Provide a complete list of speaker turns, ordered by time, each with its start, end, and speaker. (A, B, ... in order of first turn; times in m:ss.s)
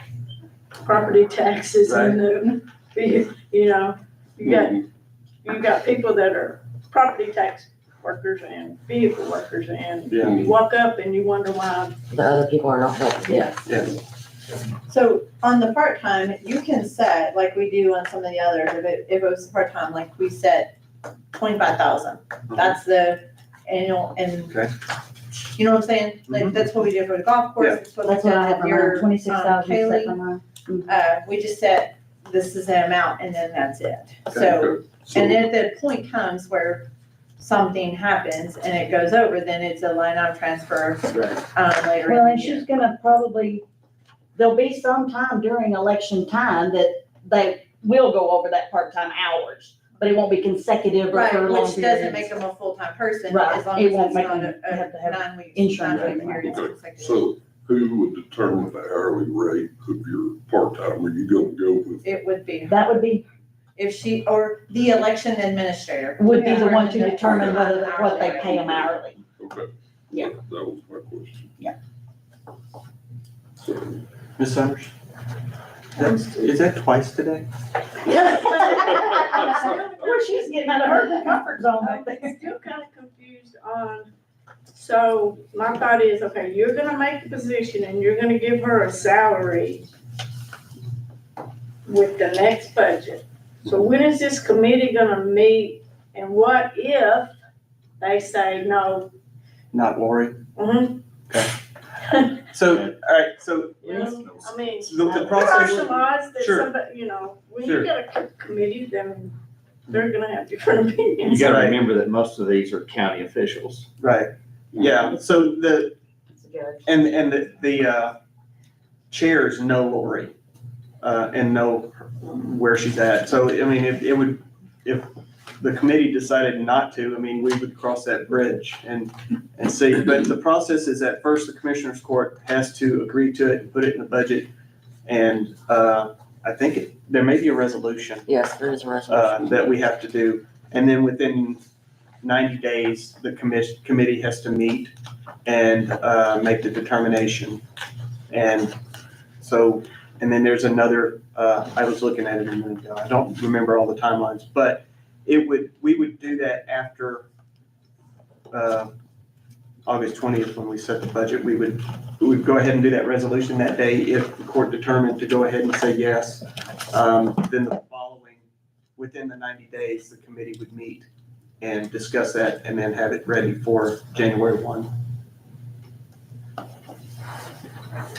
0:00.8-0:04.8 A
0:01.8-0:02.2 B
0:05.4-0:12.0 A
0:10.1-0:10.5 B
0:12.1-0:13.6 C
0:13.6-0:13.9 B
0:14.9-0:20.7 D
0:21.3-0:24.6 D
0:25.5-0:30.2 D
0:26.3-0:26.6 B
0:28.0-0:30.9 E
0:30.9-0:36.9 D
0:34.4-0:35.4 F
0:37.4-0:42.6 D
0:41.1-0:41.4 B
0:42.0-0:43.6 E
0:44.4-0:52.3 E
0:51.1-0:57.3 D
0:53.3-0:56.5 E
0:56.4-1:02.0 F
1:02.0-1:03.0 D
1:02.7-1:03.2 E
1:03.8-1:08.9 D
1:06.2-1:09.2 E
1:09.4-1:11.5 F
1:14.4-1:14.9 B
1:16.0-1:17.5 B
1:18.0-1:22.4 E
1:18.3-1:21.2 A
1:21.8-1:24.1 A
1:24.7-1:29.9 A
1:31.8-1:37.3 A
1:38.0-1:39.1 A
1:39.7-1:40.4 B
1:40.6-1:41.0 A
1:42.4-1:44.1 B
1:43.8-1:45.5 G
1:43.8-1:49.4 A
1:44.8-1:46.7 B
1:47.6-1:47.9 B
1:49.9-1:51.5 A
1:51.2-1:53.9 G
1:51.4-1:51.8 B
1:54.0-1:55.9 B
1:56.3-1:56.8 E
1:56.8-1:58.2 B
1:59.1-2:00.3 B
2:01.0-2:14.5 B
2:15.0-2:18.2 B
2:18.3-2:19.6 C
2:19.1-2:21.6 B
2:22.2-2:24.9 B
2:25.4-2:27.6 B
2:28.3-2:28.7 B
2:29.4-2:37.2 B
2:38.5-2:38.9 B
2:39.8-2:51.1 B
2:51.6-2:54.9 B